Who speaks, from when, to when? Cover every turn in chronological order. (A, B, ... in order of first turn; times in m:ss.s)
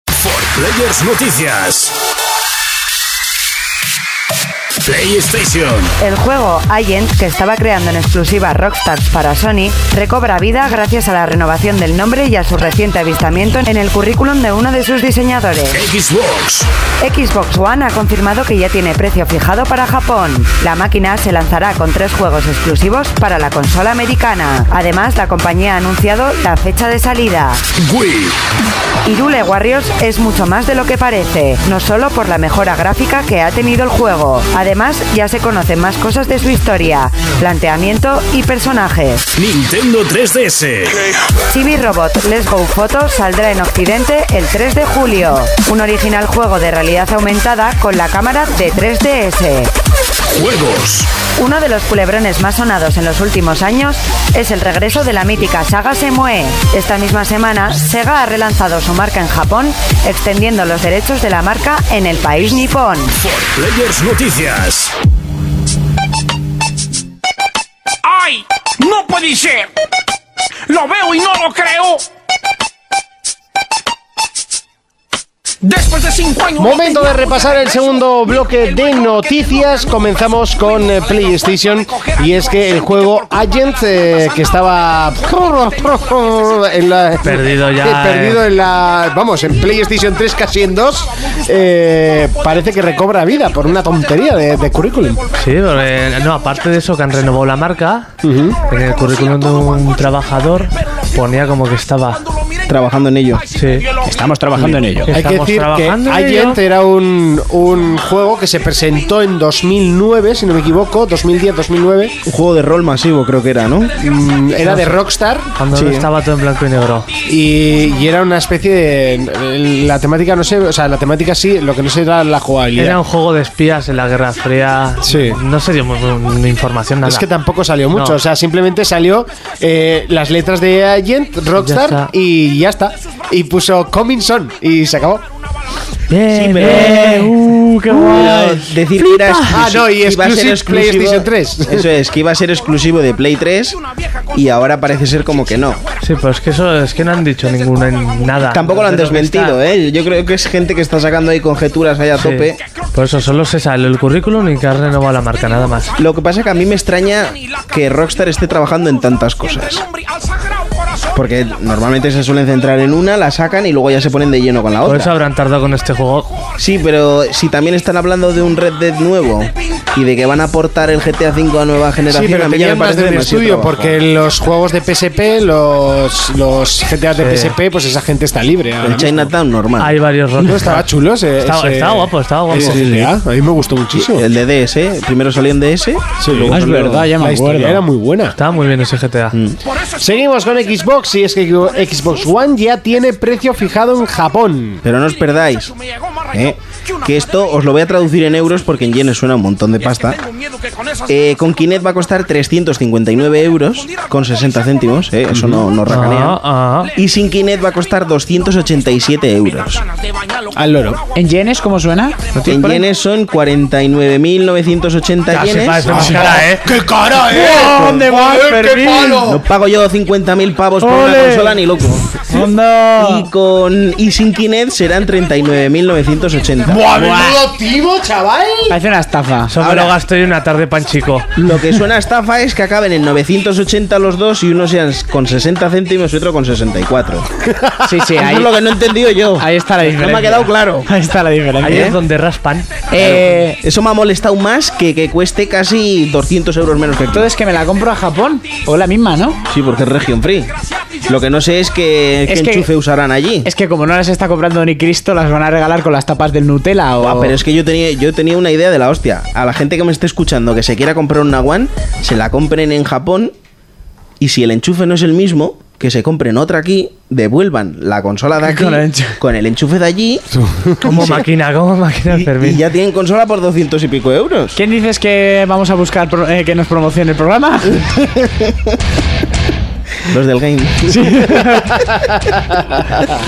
0:00.1-0:02.0 A
0:04.8-0:05.9 A
0:06.0-0:15.8 B
0:15.7-0:16.7 A
0:17.0-0:27.6 B
0:27.8-0:28.4 A
0:29.0-0:39.2 B
0:39.4-0:41.1 A
0:41.5-0:49.7 B
0:50.3-0:51.1 A
0:51.4-1:03.1 B
1:03.2-1:04.9 A
1:08.0-1:09.7 C
1:10.7-1:12.0 C
1:15.6-1:17.8 C
1:16.6-1:35.2 D
1:27.2-1:28.4 E
1:35.4-1:38.1 E
1:38.2-1:38.6 D
1:38.7-1:42.2 E
1:42.7-1:43.5 F
1:43.5-1:43.9 E
1:44.0-1:45.1 G
1:45.1-1:46.6 E
1:45.1-1:52.2 D
1:52.2-1:53.9 F
1:54.0-1:55.5 D
1:54.6-1:55.0 E
1:55.6-1:57.1 E
1:55.7-1:56.1 F
1:57.2-2:03.0 D
2:02.8-2:07.3 E
2:05.0-2:05.4 D
2:07.0-2:15.2 D
2:07.9-2:08.2 E
2:11.6-2:12.1 E
2:16.1-2:18.4 E
2:16.3-2:17.3 F
2:16.6-2:18.7 G
2:17.9-2:23.8 F
2:19.0-2:19.4 E
2:19.5-2:21.9 D
2:24.3-2:25.8 F
2:26.0-2:29.6 E
2:28.5-2:32.6 F
2:32.2-2:35.9 E
2:36.0-2:39.8 F
2:41.1-2:45.1 F
2:44.8-2:46.4 E
2:46.6-2:54.0 F
2:52.1-2:59.3 D
2:57.2-2:57.6 E
2:58.8-3:00.0 F
2:59.8-3:00.9 E
3:00.4-3:04.3 D
3:01.4-3:02.9 E
3:02.6-3:02.9 F
3:04.0-3:07.1 F
3:06.2-3:08.4 D
3:06.5-3:07.8 G
3:08.4-3:09.4 E
3:10.0-3:14.8 D
3:14.8-3:15.7 F
3:16.3-3:20.2 F
3:20.1-3:21.0 C
3:21.1-3:26.4 F
3:25.3-3:25.7 D
3:25.9-3:26.9 E
3:27.0-3:29.8 F
3:30.5-3:31.0 D
3:31.2-3:32.8 G
3:32.5-3:36.3 F
3:35.3-3:36.8 E
3:35.9-3:39.4 D
3:35.9-3:36.4 G
3:37.1-3:39.2 G
3:39.2-3:42.2 F
3:40.8-3:41.6 G
3:42.3-3:43.3 G
3:43.0-3:46.9 F
3:46.7-3:48.8 D
3:46.7-3:47.5 G
3:48.7-3:49.7 G
3:49.5-3:51.3 E
3:49.6-3:49.9 F
3:51.4-3:57.3 F
3:57.5-3:57.8 D
3:57.8-3:58.6 G
3:58.1-4:00.9 F
3:59.4-4:01.9 G
4:01.6-4:02.8 E
4:01.6-4:02.0 F
4:02.9-4:03.6 G
4:03.0-4:07.3 F
4:07.1-4:09.4 G
4:09.5-4:10.5 F
4:11.1-4:13.5 F
4:12.3-4:12.7 G
4:13.4-4:17.4 G
4:17.0-4:23.3 F
4:24.2-4:30.2 F
4:28.4-4:29.2 G
4:30.4-4:30.8 D
4:30.8-4:31.3 F
4:30.8-4:32.6 E
4:32.1-4:34.6 F
4:34.6-4:37.8 G
4:38.2-4:38.5 F
4:40.1-4:41.4 F
4:40.9-4:41.8 G
4:41.7-4:43.0 D